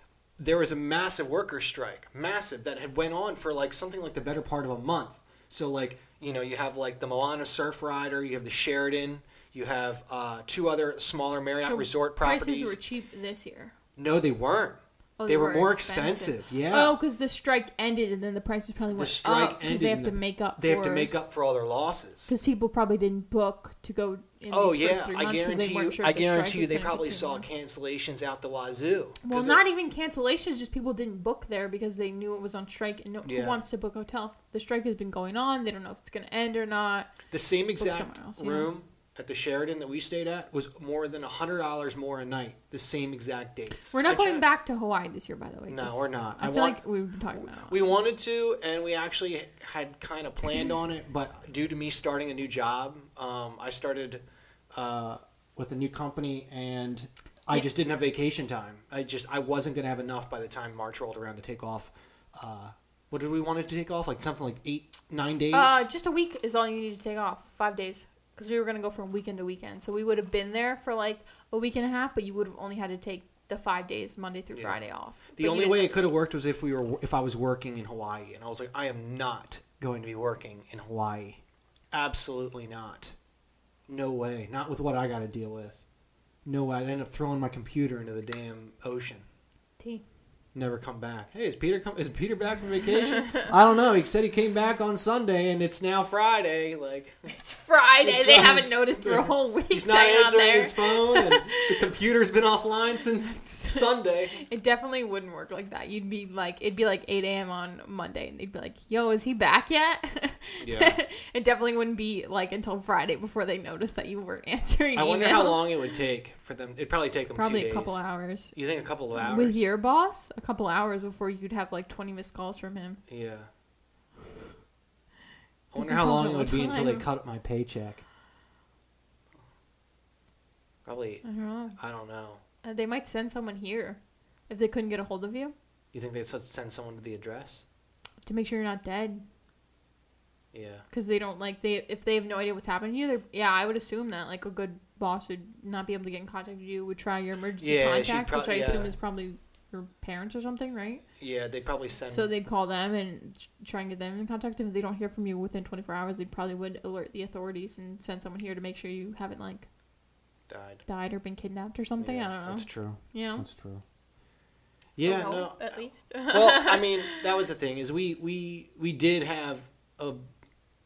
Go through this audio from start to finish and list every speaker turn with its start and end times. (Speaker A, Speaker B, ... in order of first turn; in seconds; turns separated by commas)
Speaker A: 0.4-12.8, Speaker B: 11.6-13.7, Speaker A: 14.0-17.0, Speaker B: 15.2-21.1, Speaker A: 18.9-22.3, Speaker B: 22.3-27.4, Speaker A: 24.5-29.6, Speaker B: 29.2-37.1, Speaker A: 33.2-33.6, Speaker A: 37.3-44.4, Speaker B: 37.8-38.7, Speaker B: 43.9-47.9, Speaker A: 45.7-46.8, Speaker A: 47.3-54.2, Speaker A: 54.7-65.8, Speaker B: 65.5-76.3, Speaker A: 74.5-81.4, Speaker A: 81.9-83.2, Speaker A: 83.9-85.8, Speaker A: 86.4-89.2, Speaker B: 89.8-90.0, Speaker A: 90.5-97.2, Speaker B: 93.0-93.5, Speaker B: 97.2-101.8, Speaker A: 98.0-104.4, Speaker B: 103.3-115.7, Speaker A: 110.6-111.0, Speaker A: 114.9-118.0, Speaker B: 117.3-118.5, Speaker A: 118.5-119.6, Speaker B: 119.1-123.0, Speaker A: 123.1-123.5, Speaker A: 125.7-128.0, Speaker B: 125.8-127.0, Speaker A: 130.8-131.2, Speaker B: 131.2-131.8, Speaker A: 131.8-132.4, Speaker B: 132.6-135.5, Speaker A: 135.9-137.6, Speaker B: 138.2-139.2, Speaker A: 140.5-140.8, Speaker B: 140.9-151.0, Speaker A: 147.6-148.9, Speaker A: 151.2-152.3, Speaker B: 152.1-159.7, Speaker A: 160.5-160.8, Speaker B: 160.8-163.5, Speaker A: 162.0-163.8, Speaker A: 165.0-165.8, Speaker B: 165.0-167.2, Speaker A: 166.3-170.2